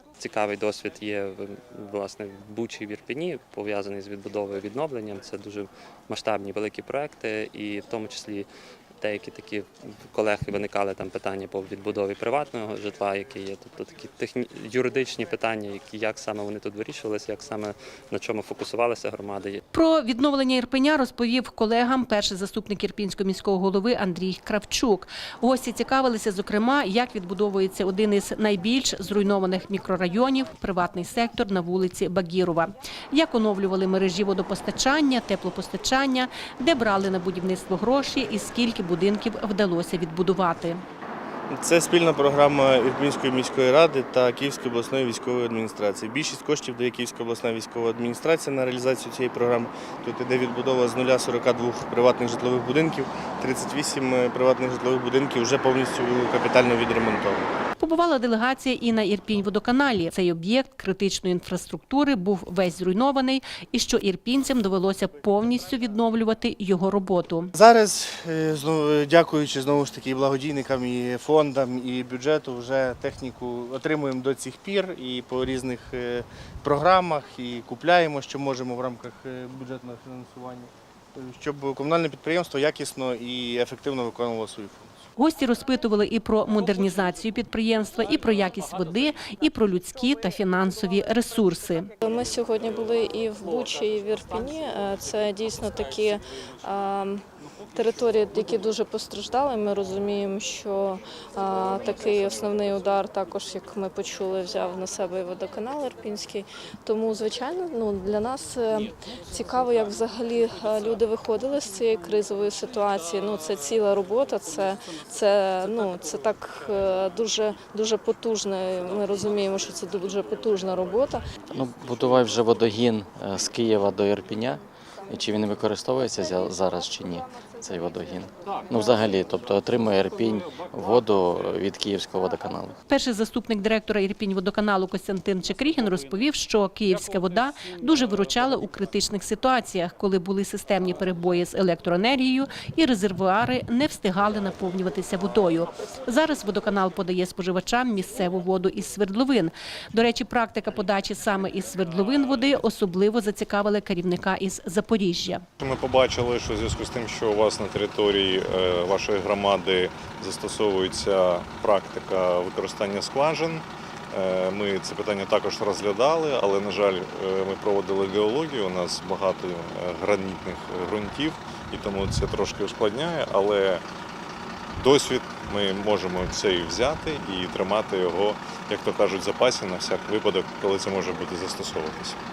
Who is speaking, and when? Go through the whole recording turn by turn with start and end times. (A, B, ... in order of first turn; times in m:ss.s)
0:00.2-0:08.5 A
0:09.0-0:19.6 A
0:19.7-0:40.8 B
0:41.5-0:57.5 C
0:57.8-1:07.5 B
1:07.6-1:25.0 C
1:25.2-1:31.9 B
1:32.0-1:37.2 D
1:37.7-2:01.2 D
2:01.5-2:12.8 E
2:12.9-2:35.4 B
2:35.6-2:53.8 F
2:54.8-3:02.2 F